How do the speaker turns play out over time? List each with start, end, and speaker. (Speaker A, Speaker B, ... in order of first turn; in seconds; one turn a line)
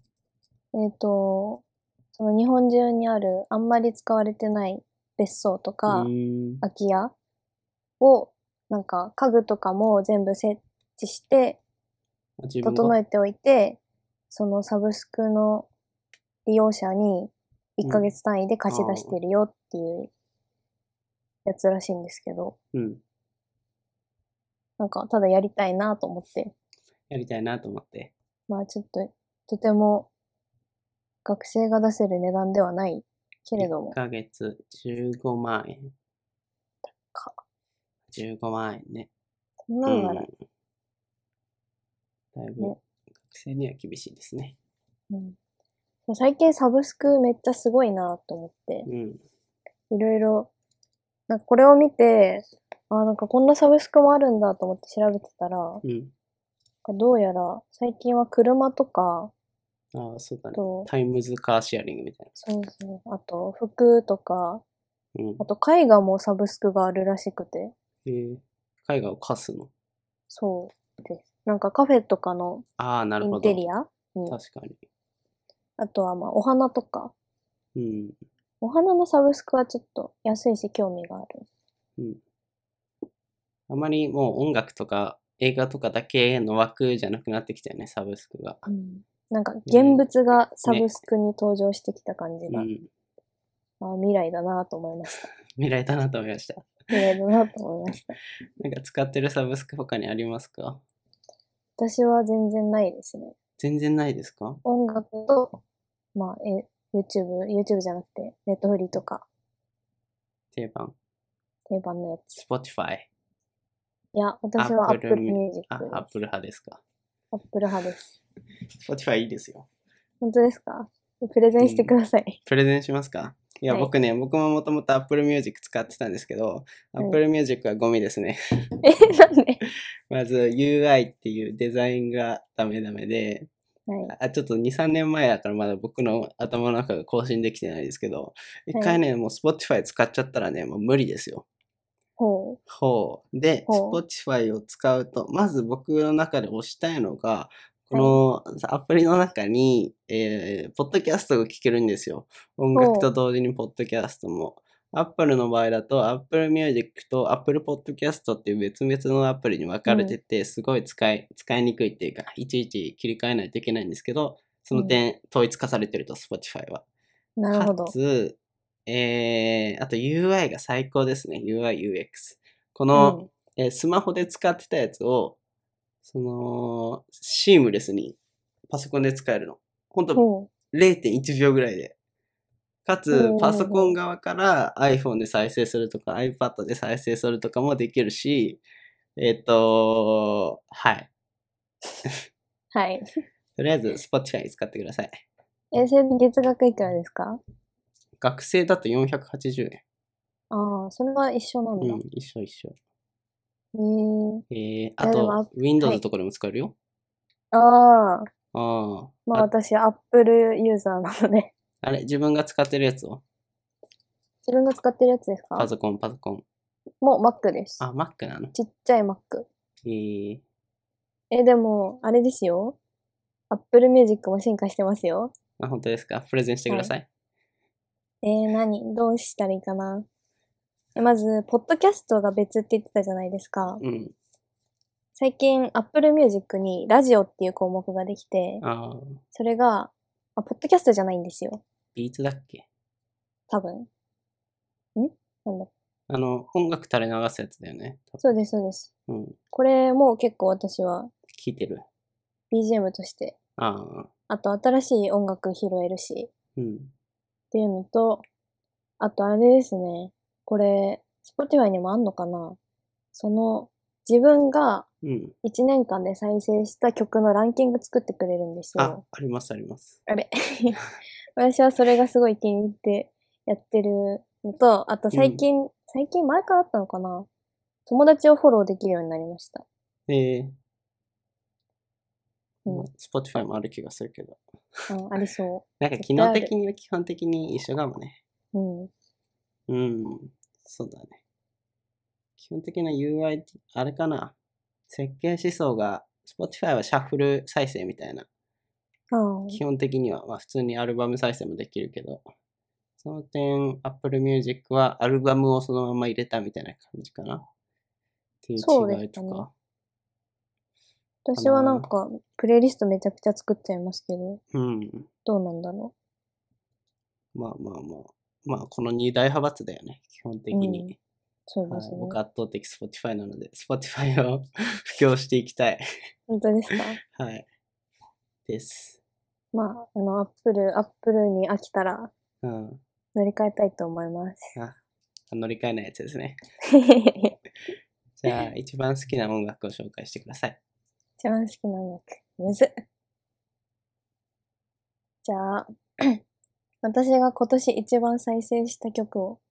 Speaker A: 0.7-1.6
Speaker A: 2.1-6.1
Speaker B: 5.9-6.6
Speaker A: 6.6-7.1
Speaker A: 8.0-11.6
Speaker B: 12.4-13.0
Speaker A: 12.6-13.8
Speaker A: 14.3-15.7
Speaker A: 16.5-20.1
Speaker B: 17.8-18.1
Speaker B: 18.7-19.2
Speaker A: 21.5-22.6
Speaker B: 22.7-23.0
Speaker A: 24.8-26.5
Speaker B: 27.1-28.1
Speaker A: 28.5-30.1
Speaker A: 31.2-34.0
Speaker B: 33.6-35.9
Speaker A: 36.9-37.4
Speaker B: 38.1-39.1
Speaker A: 39.7-40.3
Speaker B: 39.9-40.3
Speaker B: 42.4-44.6
Speaker A: 45.1-45.4
Speaker A: 46.1-48.9
Speaker B: 48.9-49.2
Speaker A: 49.9-50.5
Speaker A: 51.3-55.8
Speaker B: 55.8-56.1
Speaker A: 56.9-59.3
Speaker B: 59.9-62.3
Speaker A: 60.6-60.9
Speaker A: 62.4-64.6
Speaker B: 65.2-65.4
Speaker A: 65.4-67.7
Speaker B: 68.0-69.7
Speaker A: 70.3-72.7
Speaker B: 72.8-73.6
Speaker A: 73.2-74.4
Speaker B: 74.3-74.8
Speaker A: 75.8-77.1
Speaker B: 77.8-78.2
Speaker A: 78.6-81.5
Speaker B: 83.7-88.7
Speaker A: 88.7-92.7
Speaker B: 89.7-90.0
Speaker B: 90.7-91.0
Speaker B: 92.5-92.9
Speaker A: 93.8-95.3
Speaker B: 95.5-96.8
Speaker A: 96.9-98.2
Speaker B: 98.6-100.8
Speaker A: 101.8-103.3
Speaker B: 103.6-104.6
Speaker A: 104.7-105.6
Speaker A: 106.2-109.3
Speaker B: 110.5-111.0
Speaker A: 111.7-112.4
Speaker B: 112.3-113.1
Speaker A: 114.2-116.1
Speaker B: 114.6-116.8
Speaker A: 117.3-118.2
Speaker B: 118.8-119.7
Speaker A: 120.2-122.4
Speaker B: 121.6-121.9
Speaker B: 122.5-128.4
Speaker A: 128.8-129.6
Speaker B: 130.1-133.5
Speaker A: 133.9-134.1
Speaker B: 134.1-141.5
Speaker A: 138.7-139.0
Speaker A: 142.2-142.6
Speaker B: 142.7-166.8
Speaker A: 143.7-144.0
Speaker A: 147.9-148.2
Speaker A: 152.8-153.1
Speaker A: 159.9-160.2
Speaker A: 167.4-167.9
Speaker B: 167.5-175.4
Speaker A: 172.9-173.3
Speaker B: 176.0-178.2
Speaker B: 178.7-182.0
Speaker A: 180.2-180.5
Speaker B: 182.8-188.6
Speaker A: 183.1-183.9
Speaker B: 189.2-191.1
Speaker A: 192.7-193.1
Speaker B: 193.6-195.2
Speaker A: 195.7-197.4
Speaker B: 198.2-199.8
Speaker A: 200.5-202.0
Speaker B: 201.8-202.8
Speaker A: 203.8-204.4
Speaker B: 204.5-206.7
Speaker A: 205.0-206.0
Speaker A: 207.5-208.3
Speaker B: 208.5-209.5
Speaker A: 209.3-211.5
Speaker B: 211.8-213.2
Speaker A: 214.5-215.7
Speaker B: 215.6-216.4
Speaker A: 217.0-217.8
Speaker B: 217.8-218.5
Speaker A: 218.5-219.5
Speaker B: 219.8-220.4
Speaker A: 221.3-222.8
Speaker A: 223.5-225.3
Speaker B: 225.6-227.1
Speaker A: 228.2-230.1
Speaker A: 231.0-233.8
Speaker B: 233.8-234.2
Speaker A: 235.2-238.6
Speaker B: 238.6-239.2
Speaker A: 239.3-241.6
Speaker B: 241.9-242.7
Speaker A: 243.5-243.9
Speaker A: 245.0-245.7
Speaker B: 246.1-248.2
Speaker A: 248.2-248.9
Speaker B: 249.1-249.4
Speaker A: 249.5-251.1
Speaker B: 251.3-251.8
Speaker A: 252.5-253.3
Speaker B: 253.6-254.1
Speaker A: 254.3-256.3
Speaker B: 256.6-256.9
Speaker A: 257.5-258.2
Speaker A: 259.0-262.6
Speaker A: 263.1-264.9
Speaker B: 265.0-265.4
Speaker A: 265.4-269.0
Speaker B: 268.8-270.0
Speaker A: 270.1-270.8
Speaker A: 271.4-277.3
Speaker B: 275.1-275.4
Speaker A: 277.9-279.6
Speaker B: 280.1-280.6
Speaker B: 282.7-284.4
Speaker A: 284.9-286.5
Speaker B: 285.8-288.2
Speaker A: 288.5-288.9
Speaker B: 289.7-291.2
Speaker B: 292.4-294.3
Speaker B: 294.9-298.3
Speaker A: 299.1-299.6
Speaker B: 299.5-302.2
Speaker B: 303.0-307.4
Speaker B: 308.4-309.5
Speaker A: 308.6-309.4
Speaker A: 311.3-314.4
Speaker B: 311.4-311.9
Speaker B: 314.5-315.1
Speaker A: 315.3-315.9
Speaker B: 317.4-321.0
Speaker A: 320.5-320.9
Speaker A: 321.5-322.2
Speaker B: 321.7-325.8
Speaker A: 326.3-327.0
Speaker B: 327.0-327.5
Speaker B: 328.5-329.0
Speaker A: 329.5-332.1
Speaker B: 332.4-332.8
Speaker A: 333.1-334.5
Speaker B: 335.3-336.4
Speaker A: 336.7-337.4
Speaker B: 338.2-340.6
Speaker A: 341.2-342.7
Speaker A: 345.2-346.2
Speaker A: 346.8-349.4